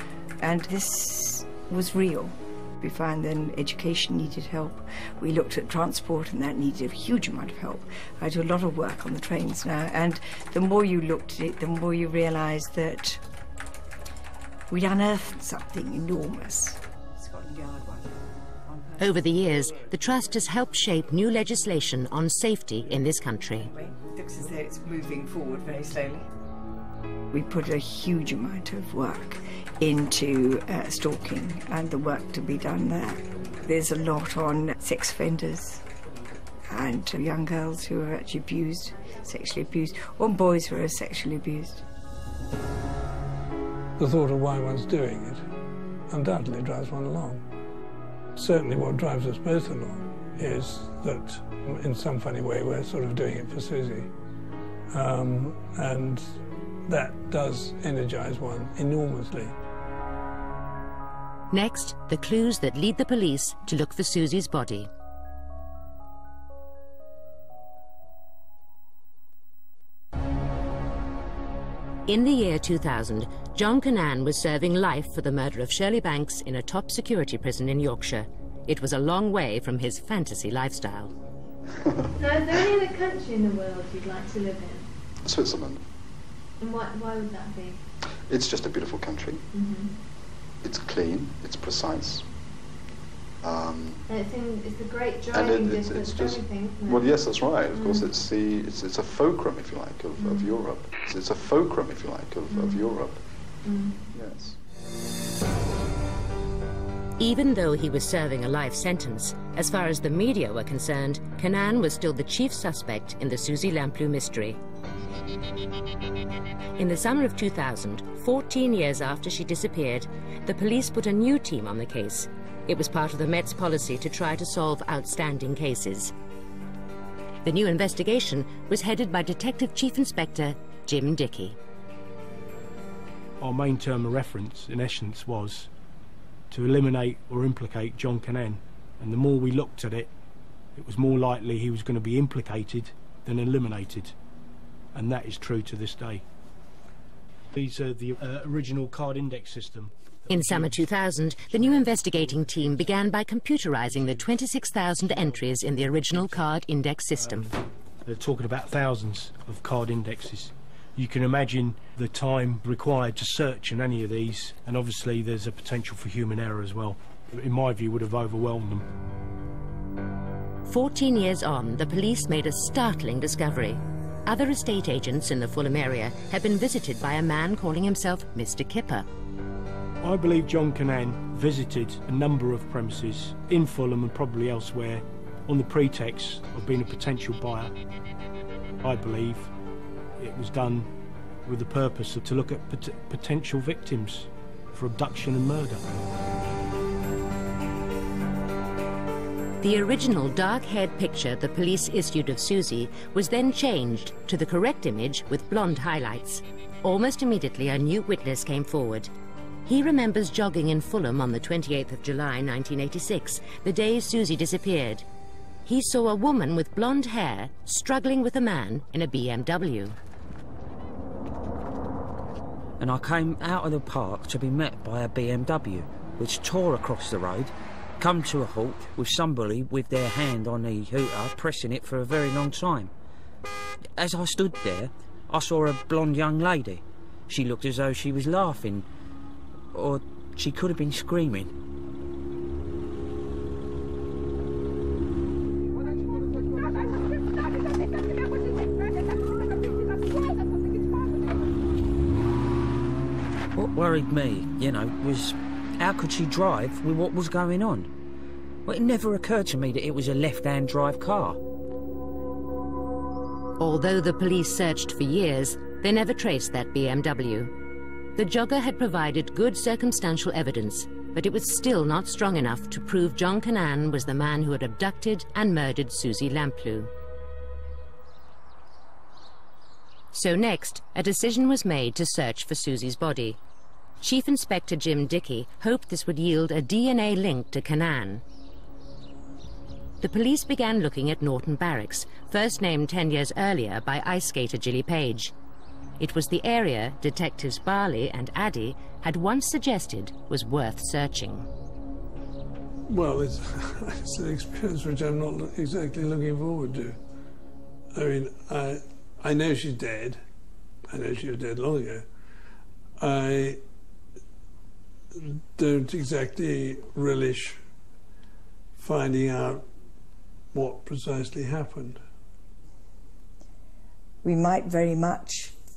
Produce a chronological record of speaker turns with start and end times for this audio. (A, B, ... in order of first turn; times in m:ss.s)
0:00.4-0:13.2 A
0:14.7-0:19.4 A
0:19.0-0:23.7 B
0:23.6-0:26.3 A
0:27.3-0:35.8 A
0:36.7-0:41.8 A
0:44.0-0:45.4 C
0:46.1-0:47.4 C
0:48.4-0:54.1 C
0:54.9-0:59.5 C
1:01.5-1:04.9 B
1:12.1-1:21.1 B
1:22.2-1:24.9 D
1:25.2-1:25.8 E
1:26.6-1:27.8 D
1:28.3-1:29.4 E
1:29.5-1:29.9 D
1:30.6-1:32.2 E
1:33.4-1:34.0 E
1:34.1-1:37.1 D
1:35.3-1:43.2 E
1:37.7-1:38.1 D
1:40.2-1:40.5 D
1:42.5-1:42.8 D
1:43.6-1:44.0 D
1:44.1-1:44.6 E
1:47.2-1:54.6 B
1:56.8-2:06.1 B
2:07.4-2:11.6 B
2:13.4-2:15.7 F
2:16.5-2:20.1 F
2:20.7-2:24.1 F
2:24.9-2:26.2 F
2:27.5-2:30.8 F
2:30.3-2:37.5 B
2:31.5-2:32.9 F
2:33.9-2:34.3 F
2:35.0-2:35.4 F
2:37.2-2:48.9 F
2:50.7-2:59.0 B
3:00.0-3:07.7 F
3:08.8-3:09.5 F
3:10.2-3:10.9 F
3:11.4-3:15.8 F
3:19.6-3:29.1 B
3:29.6-3:35.0 B
3:35.6-3:40.0 B
3:42.8-3:52.9 G
3:54.0-3:58.9 G
3:59.7-4:01.5 G
4:13.5-4:17.9 G
4:18.6-4:21.4 G
4:23.6-4:27.5 B
4:28.2-4:36.9 B
4:40.1-4:43.4 B
4:44.0-4:48.2 B
4:50.0-4:55.3 B
4:56.0-5:01.5 B
5:02.9-5:07.0 C
5:07.9-5:10.2 C
5:10.9-5:12.1 C
5:13.0-5:13.6 C
5:15.1-5:17.6 C
5:18.8-5:19.6 C
5:20.5-5:22.0 C
5:24.2-5:25.5 A